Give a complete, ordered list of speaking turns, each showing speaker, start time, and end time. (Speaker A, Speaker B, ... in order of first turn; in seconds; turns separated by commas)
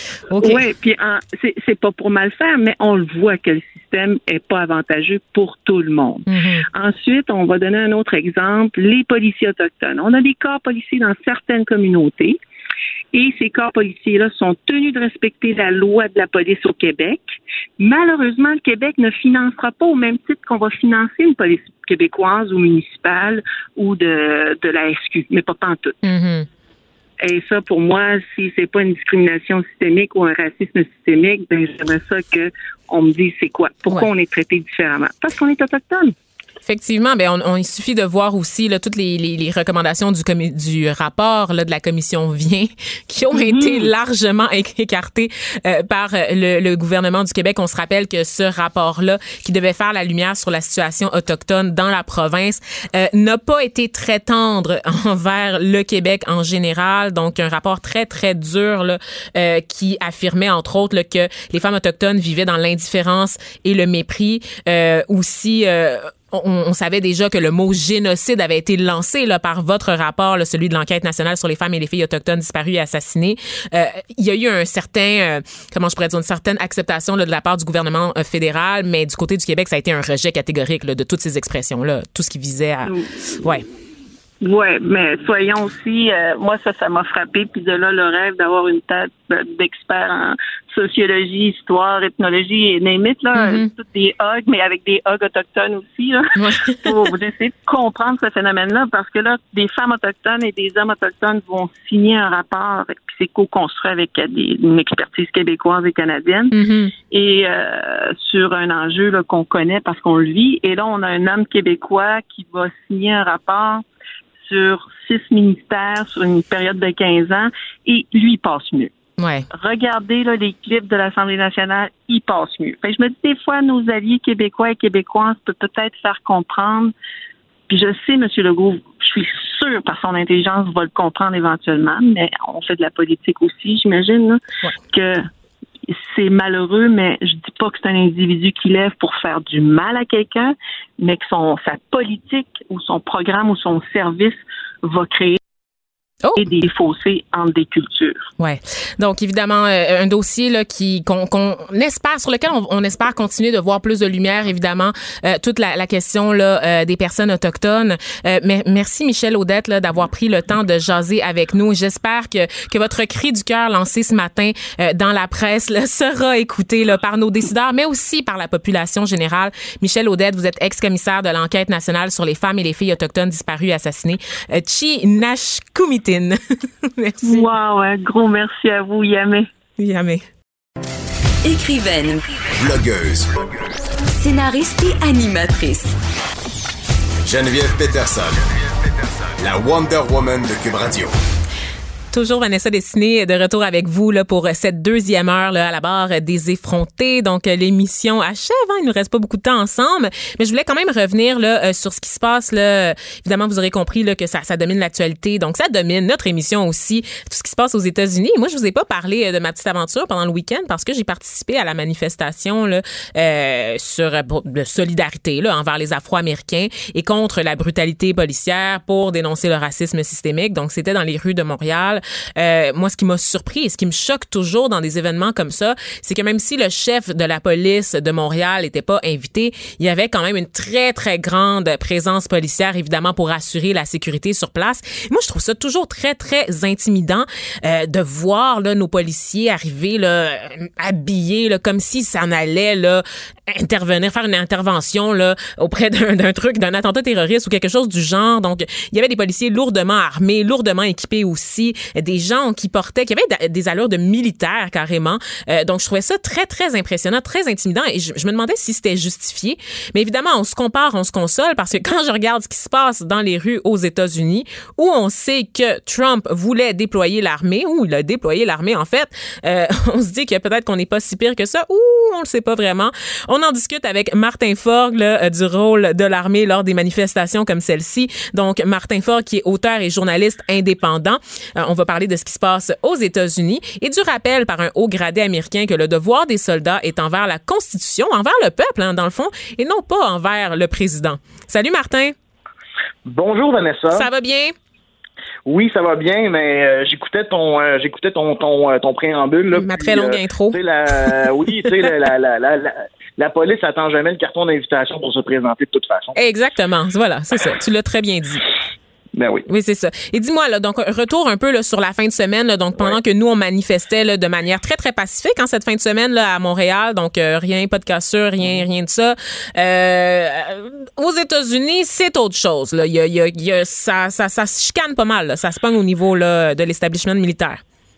Speaker A: 0.3-0.6, Speaker B: 0.4-12.4, Speaker A: 6.3-6.7, Speaker B: 13.1-26.0, Speaker A: 26.0-26.5, Speaker B: 27.2-36.1, Speaker A: 36.7-83.6, Speaker B: 43.3-43.9, Speaker B: 82.9-83.2, Speaker B: 84.4-106.6, Speaker A: 93.3-93.7, Speaker A: 96.4-96.9, Speaker A: 106.5-106.9, Speaker B: 107.1-113.8, Speaker B: 114.4-118.9, Speaker A: 119.2-119.5, Speaker B: 119.5-126.9, Speaker B: 127.7-134.4, Speaker B: 134.9-135.3, Speaker B: 135.9-145.4, Speaker B: 146.4-148.3, Speaker A: 148.4-177.5, Speaker B: 177.2-179.5, Speaker A: 179.8-180.2, Speaker C: 181.4-182.2, Speaker D: 182.6-183.3, Speaker C: 184.1-186.0, Speaker D: 187.2-191.2, Speaker A: 192.1-292.1, Speaker E: 293.1-294.1, Speaker A: 293.9-294.5, Speaker E: 295.5-306.2, Speaker A: 299.5-301.1, Speaker A: 306.1-308.4, Speaker E: 309.2-309.4, Speaker A: 309.5-327.6